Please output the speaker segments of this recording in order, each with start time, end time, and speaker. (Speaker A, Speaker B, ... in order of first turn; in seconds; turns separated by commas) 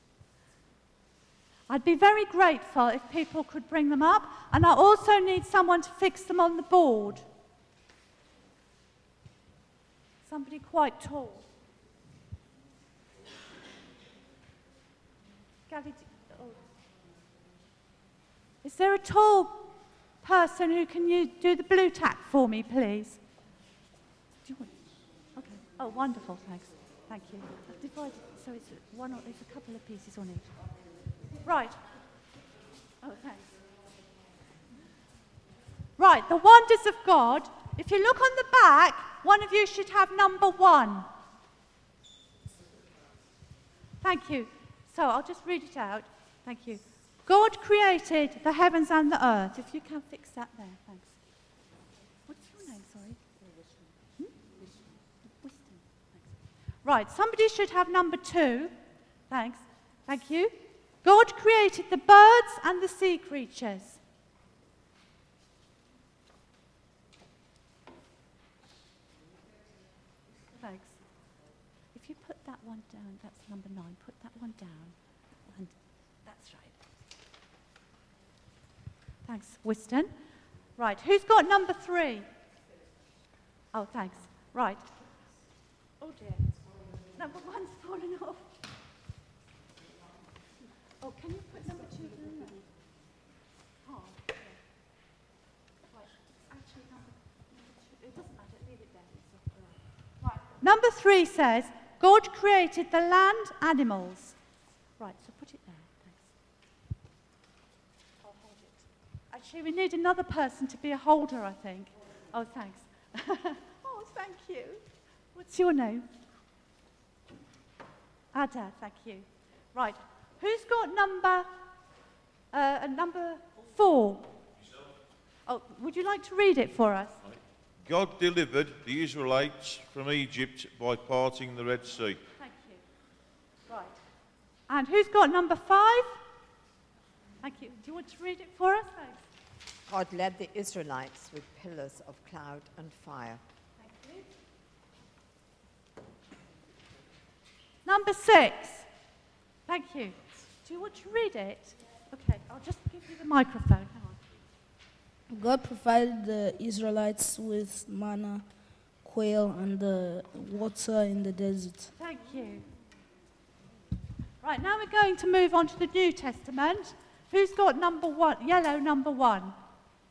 Speaker A: 1.7-7.2, Speaker A: 10.3-11.5, Speaker A: 15.7-16.6, Speaker A: 18.6-23.2, Speaker A: 24.4-24.7, Speaker A: 25.4-30.5, Speaker A: 31.4-31.8, Speaker A: 33.0-33.5, Speaker A: 36.0-41.1, Speaker A: 44.0-51.2, Speaker A: 52.3-53.2, Speaker A: 55.4-56.3, Speaker A: 56.8-58.7, Speaker A: 59.3-64.0, Speaker A: 70.5-71.0, Speaker A: 71.9-75.7, Speaker A: 76.2-76.8, Speaker A: 79.2-80.1, Speaker A: 80.8-82.3, Speaker A: 83.7-84.9, Speaker A: 86.0-86.5, Speaker A: 87.1-88.5, Speaker A: 91.0-92.6, Speaker A: 93.8-94.6, Speaker A: 95.9-104.4, Speaker A: 105.0-106.3, Speaker A: 108.2-114.8, Speaker A: 115.3-116.1, Speaker A: 118.3-121.5, Speaker A: 122.5-124.3, Speaker A: 125.5-127.2, Speaker B: 127.2-132.2, Speaker A: 132.4-132.8, Speaker A: 133.7-134.0, Speaker A: 134.7-136.2, Speaker A: 137.4-139.2, Speaker C: 139.9-143.4, Speaker A: 143.8-144.3, Speaker A: 147.8-148.9, Speaker A: 149.7-154.4, Speaker D: 155.3-158.5, Speaker D: 159.0-161.9, Speaker A: 162.0-162.6, Speaker A: 164.4-169.6